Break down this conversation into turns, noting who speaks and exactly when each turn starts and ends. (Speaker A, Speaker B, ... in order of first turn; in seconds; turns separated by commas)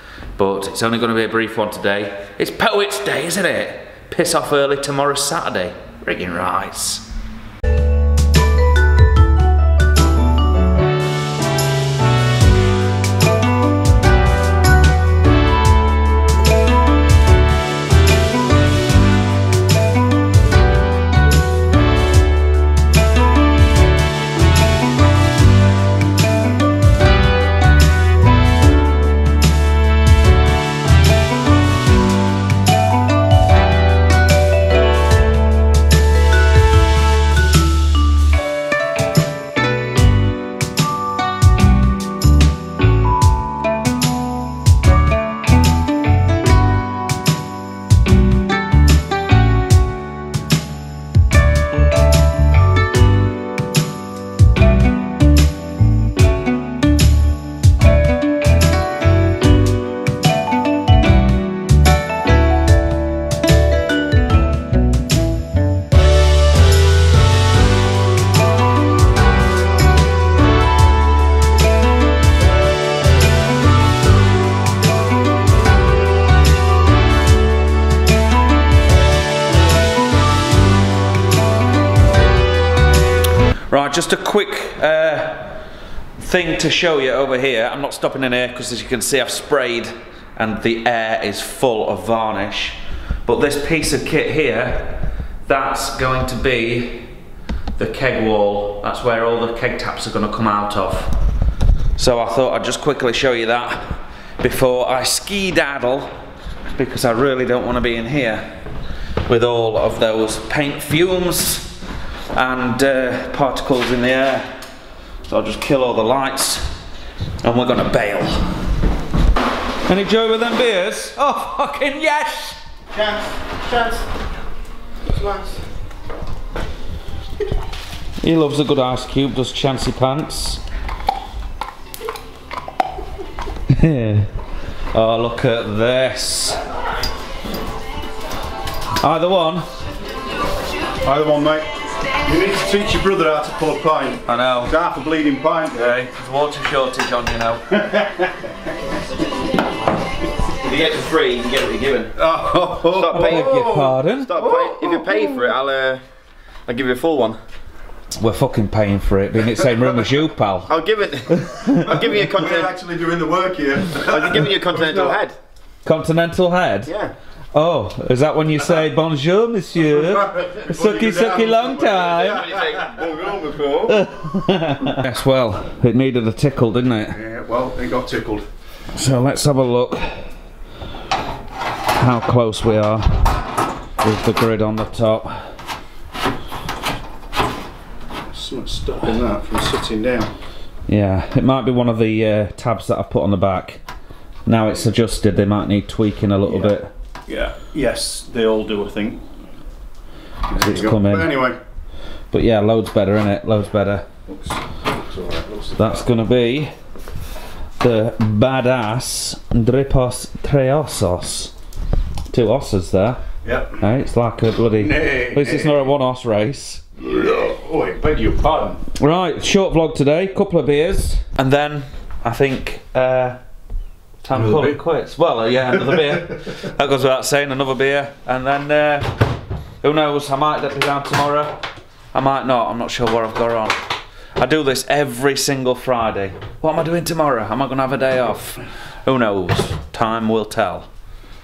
Speaker A: 0.4-7.0, Speaker A: 83.7-85.6, Speaker A: 86.2-94.9, Speaker A: 95.5-97.1, Speaker A: 97.8-101.1, Speaker A: 102.0-106.1, Speaker A: 106.7-108.5, Speaker A: 109.2-111.7, Speaker A: 112.3-114.5, Speaker A: 115.3-116.7, Speaker A: 117.4-118.4, Speaker A: 119.8-122.6, Speaker B: 122.9-124.0, Speaker B: 125.1-125.6, Speaker A: 128.2-130.6, Speaker A: 133.7-134.3, Speaker A: 134.9-136.6, Speaker A: 139.0-139.6, Speaker C: 141.0-145.9, Speaker A: 144.3-144.7, Speaker A: 145.7-147.8, Speaker C: 147.8-148.4, Speaker B: 150.6-152.2, Speaker C: 152.2-155.4, Speaker B: 152.8-156.0, Speaker A: 153.1-154.4, Speaker B: 156.7-157.4, Speaker A: 158.2-162.0, Speaker B: 160.7-162.8, Speaker C: 162.1-165.2, Speaker B: 164.0-165.3, Speaker A: 165.8-166.9, Speaker B: 166.8-167.1, Speaker A: 167.5-172.5, Speaker C: 169.9-173.3, Speaker B: 172.2-174.0, Speaker A: 173.9-177.2, Speaker C: 177.1-178.4, Speaker A: 178.9-180.2, Speaker A: 181.9-183.3, Speaker A: 184.0-185.4, Speaker C: 188.3-190.3, Speaker A: 190.9-193.8, Speaker A: 194.4-196.9, Speaker C: 197.3-199.2, Speaker C: 200.5-201.6, Speaker A: 200.5-201.3, Speaker A: 202.3-204.1, Speaker C: 204.3-206.1, Speaker A: 205.8-206.7, Speaker A: 207.8-211.5, Speaker A: 212.3-213.2, Speaker C: 213.4-213.7, Speaker A: 213.8-216.8, Speaker C: 214.8-215.8, Speaker C: 217.0-218.8, Speaker A: 218.9-223.4, Speaker A: 224.2-229.1, Speaker C: 224.3-224.7, Speaker A: 229.8-231.6, Speaker A: 232.1-233.8, Speaker A: 234.4-240.9